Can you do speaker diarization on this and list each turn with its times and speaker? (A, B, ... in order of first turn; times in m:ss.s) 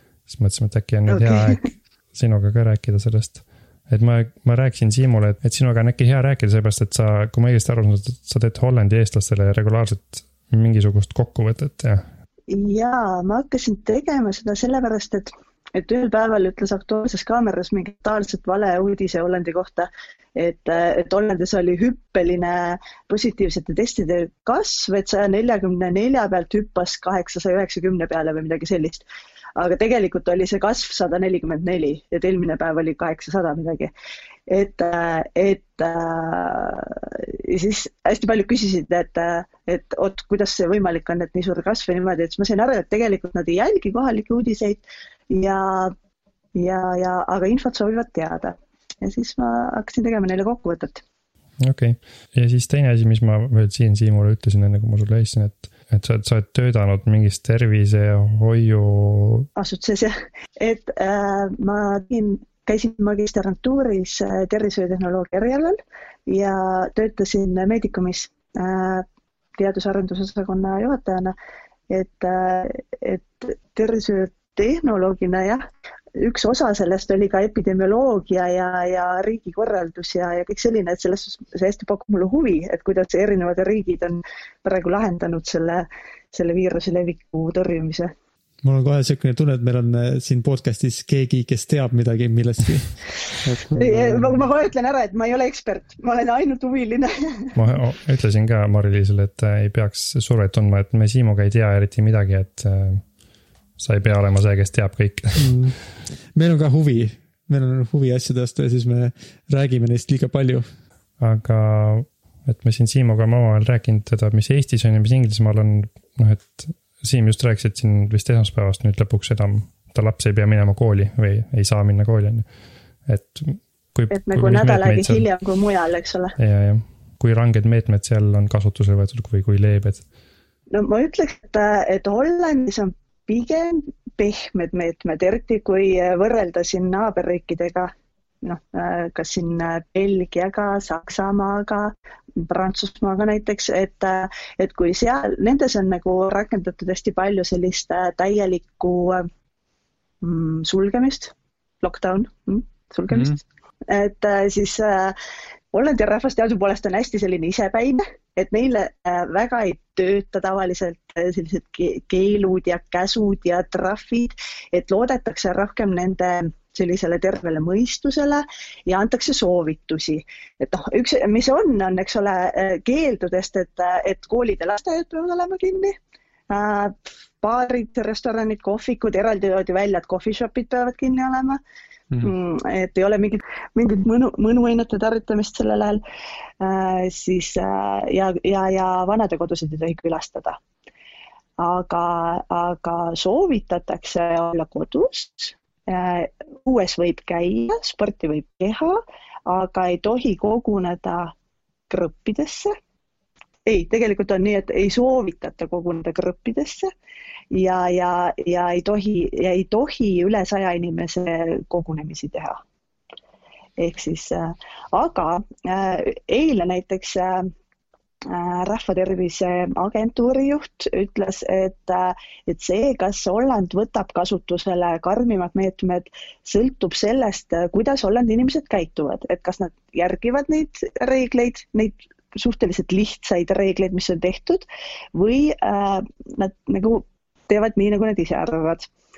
0:00.3-0:12.1 A
0:01.1-0:01.7 B
0:12.5-0:29.0 B
0:29.6-0:33.9 B
0:34.5-0:45.9 B
0:46.6-0:51.0 B
0:51.6-0:59.5 A
0:59.6-1:09.1 B
1:09.6-1:11.3 B
1:11.9-1:15.6 B
1:16.2-1:28.1 B
1:28.6-1:34.3 C
1:33.7-1:37.5 B
1:37.6-1:43.0 A
1:43.8-1:45.6 A
1:45.4-1:50.7 C
1:51.2-2:02.5 A
2:03.1-2:05.3 A
2:04.1-2:06.3 B
2:06.4-2:10.0 A
2:10.7-2:17.9 B
2:18.4-2:29.3 B
2:30.2-2:35.2 B
2:35.7-2:56.0 B
2:56.5-3:01.6 B
3:02.2-3:06.0 B
3:06.6-3:10.6 B
3:11.6-3:21.3 B
3:21.9-3:22.8 B
3:23.7-3:26.9 B
3:27.5-3:32.6 B
3:33.8-3:37.5 B
3:38.3-3:54.6 B
3:55.2-3:58.9 B